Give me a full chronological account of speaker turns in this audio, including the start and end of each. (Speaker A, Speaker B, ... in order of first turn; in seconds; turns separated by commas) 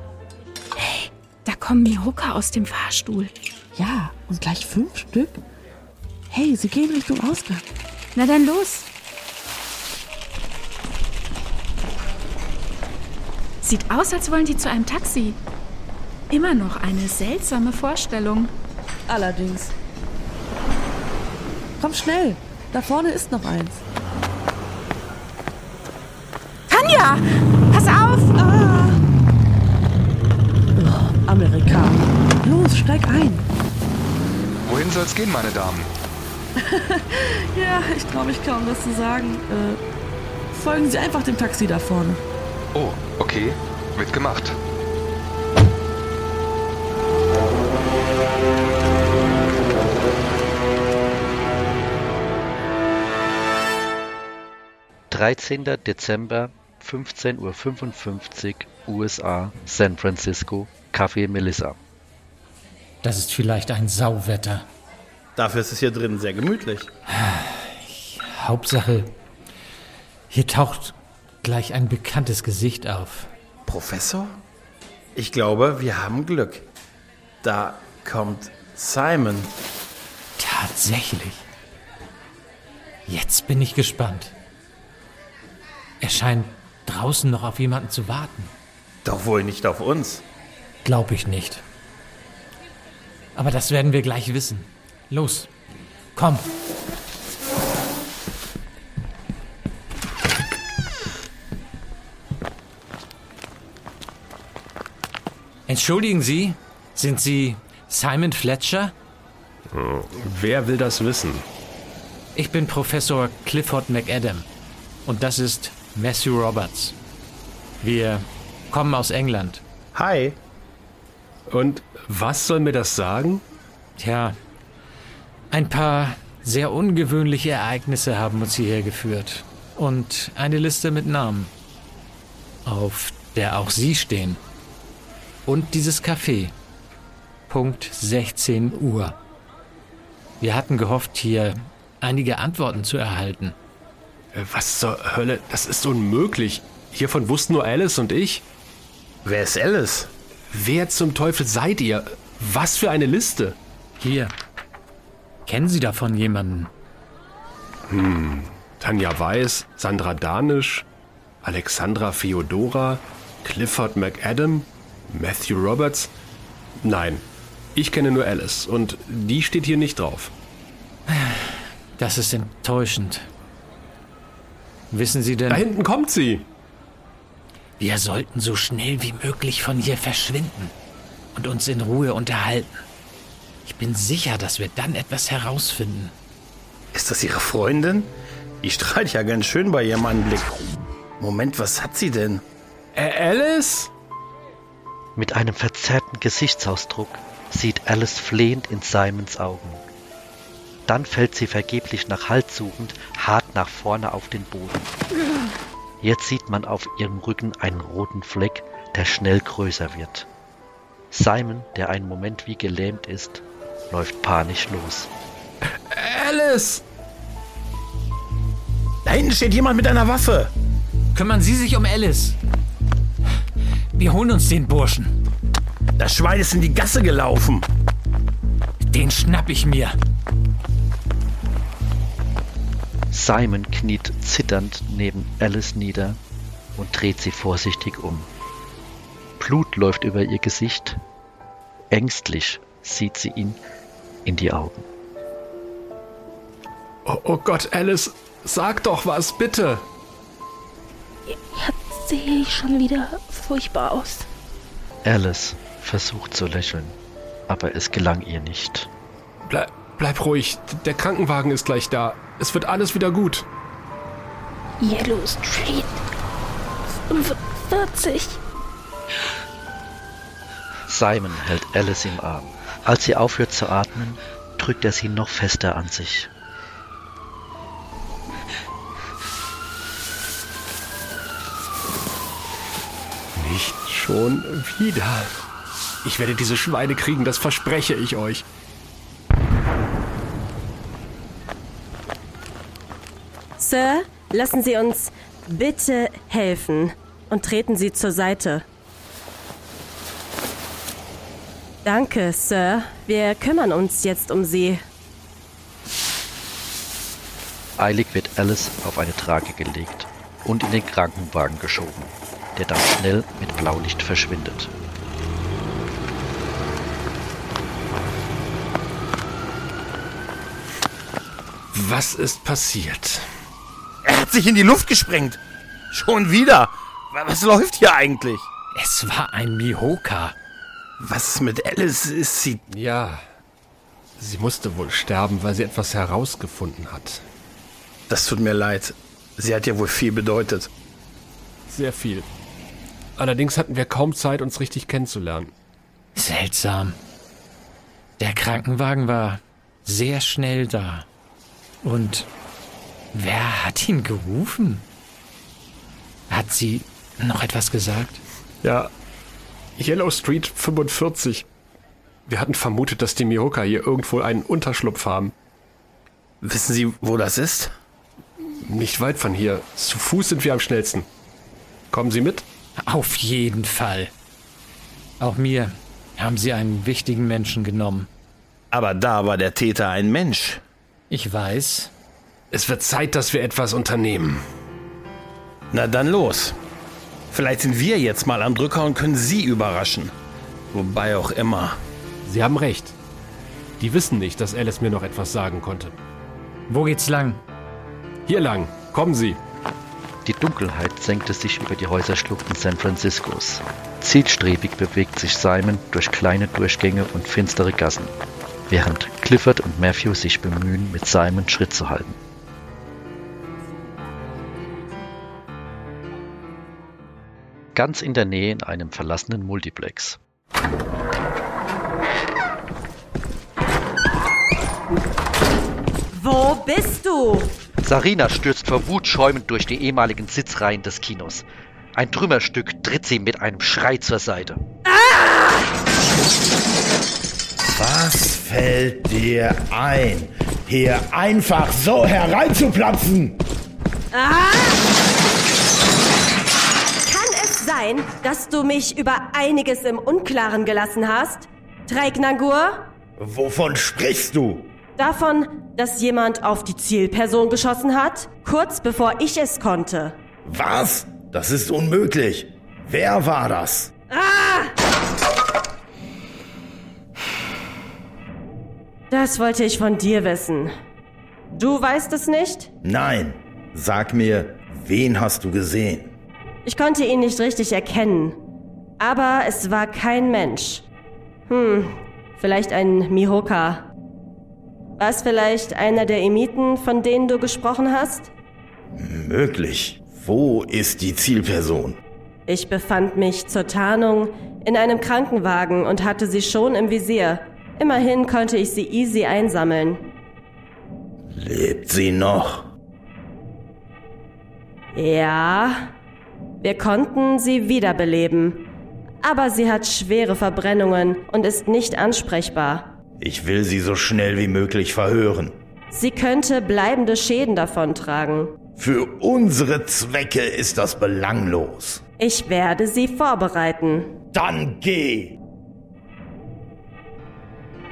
Speaker A: 0.8-3.3, Speaker B: 3.7-5.4, Speaker B: 6.3-7.6, Speaker A: 8.2-8.9, Speaker A: 13.6-15.4, Speaker A: 16.3-18.5, Speaker B: 19.1-19.7, Speaker B: 21.8-23.8, Speaker A: 26.7-28.4, Speaker B: 28.4-29.0, Speaker B: 30.8-33.5, Speaker C: 34.6-35.9, Speaker B: 36.6-39.8, Speaker B: 40.5-42.2, Speaker C: 42.7-44.6, Speaker D: 55.1-61.8, Speaker E: 63.0-64.7, Speaker F: 65.4-66.9, Speaker E: 67.1-69.1, Speaker E: 70.3-73.3, Speaker F: 73.7-74.4, Speaker F: 75.2-76.7, Speaker F: 77.4-79.5, Speaker E: 80.4-81.5, Speaker E: 83.1-84.3, Speaker E: 86.0-88.5, Speaker F: 89.0-90.2, Speaker E: 90.8-91.6, Speaker E: 93.3-95.5, Speaker E: 96.2-96.5, Speaker E: 105.7-108.9, Speaker G: 109.7-111.5, Speaker E: 112.3-114.5, Speaker E: 115.1-117.0, Speaker E: 117.8-119.6, Speaker F: 120.0-120.4, Speaker G: 121.5-123.4, Speaker E: 124.0-124.4, Speaker E: 125.5-131.5, Speaker E: 132.7-134.4, Speaker E: 135.5-136.5, Speaker E: 137.5-139.2, Speaker E: 140.4-143.6, Speaker G: 144.3-148.4, Speaker F: 149.2-150.1, Speaker G: 150.5-153.6, Speaker E: 154.0-154.3, Speaker E: 155.5-156.7, Speaker G: 157.9-160.9, Speaker G: 161.4-166.1, Speaker G: 166.8-170.3, Speaker E: 171.1-173.3, Speaker E: 174.9-175.7, Speaker G: 175.5-176.5, Speaker E: 177.8-180.7, Speaker E: 181.3-182.8, Speaker E: 183.7-186.1, Speaker F: 186.9-190.7, Speaker F: 191.2-192.4, Speaker G: 192.9-193.9, Speaker D: 195.2-199.8, Speaker D: 200.9-204.9, Speaker D: 206.0-210.3, Speaker D: 211.1-215.1, Speaker G: 215.7-216.8, Speaker F: 219.1-220.5, Speaker E: 221.2-222.4, Speaker E: 223.9-225.2, Speaker F: 226.0-227.7, Speaker E: 228.9-230.0, Speaker D: 233.1-236.2, Speaker D: 236.8-238.3, Speaker D: 239.4-241.0, Speaker D: 241.9-243.6, Speaker D: 244.2-244.9, Speaker G: 247.1-249.9, Speaker H: 251.3-254.3, Speaker D: 255.0-257.0, Speaker D: 257.5-258.9, Speaker G: 259.5-263.5, Speaker H: 264.8-266.0, Speaker H: 267.1-268.4, Speaker D: 270.9-276.3, Speaker G: 283.4-285.4, Speaker G: 286.0-288.4, Speaker I: 293.6-298.6, Speaker I: 301.9-304.8, Speaker D: 307.8-314.7, Speaker G: 321.7-323.3, Speaker F: 324.0-325.4, Speaker F: 325.9-328.5, Speaker E: 328.8-330.4, Speaker F: 331.0-332.6, Speaker G: 332.7-333.2, Speaker G: 334.2-337.2, Speaker F: 338.1-340.7, Speaker G: 341.7-342.3, Speaker G: 343.2-345.5, Speaker E: 346.1-347.0, Speaker E: 348.2-351.1, Speaker E: 351.8-352.3, Speaker E: 353.1-354.9, Speaker E: 356.3-358.2, Speaker G: 358.6-358.9, Speaker G: 359.8-361.5, Speaker G: 362.3-365.3, Speaker F: 366.4-367.7, Speaker G: 368.6-371.1, Speaker G: 371.9-372.5, Speaker E: 372.8-374.1, Speaker E: 375.2-378.1, Speaker F: 378.7-380.6, Speaker E: 381.1-381.9, Speaker G: 382.5-384.4, Speaker F: 385.7-386.6, Speaker F: 387.3-390.1, Speaker F: 390.7-391.8, Speaker G: 392.2-392.9, Speaker G: 393.8-396.0, Speaker E: 396.7-397.4, Speaker G: 398.3-399.4, Speaker D: 400.2-408.1, Speaker D: 408.7-412.2, Speaker D: 417.8-420.2, Speaker I: 426.1-427.6, Speaker D: 427.8-434.6, Speaker I: 434.9-435.6, Speaker J: 437.7-443.4, Speaker I: 444.1-444.8, Speaker I: 447.1-452.9, Speaker J: 453.2-454.7, Speaker I: 455.0-460.2, Speaker J: 460.4-463.9, Speaker I: 464.1-464.7, Speaker I: 469.1-470.7, Speaker I: 471.5-472.7, Speaker J: 472.8-476.1, Speaker I: 476.6-478.4, Speaker I: 479.0-480.8, Speaker I: 481.5-483.9, Speaker I: 485.0-488.3, Speaker J: 488.9-492.0, Speaker I: 492.5-500.0, Speaker J: 501.3-502.7, Speaker I: 504.9-505.9, Speaker I: 506.6-508.7, Speaker I: 509.2-512.9, Speaker J: 513.2-515.5, Speaker I: 515.9-518.5, Speaker J: 518.8-522.0, Speaker I: 522.2-524.1, Speaker J: 524.3-525.4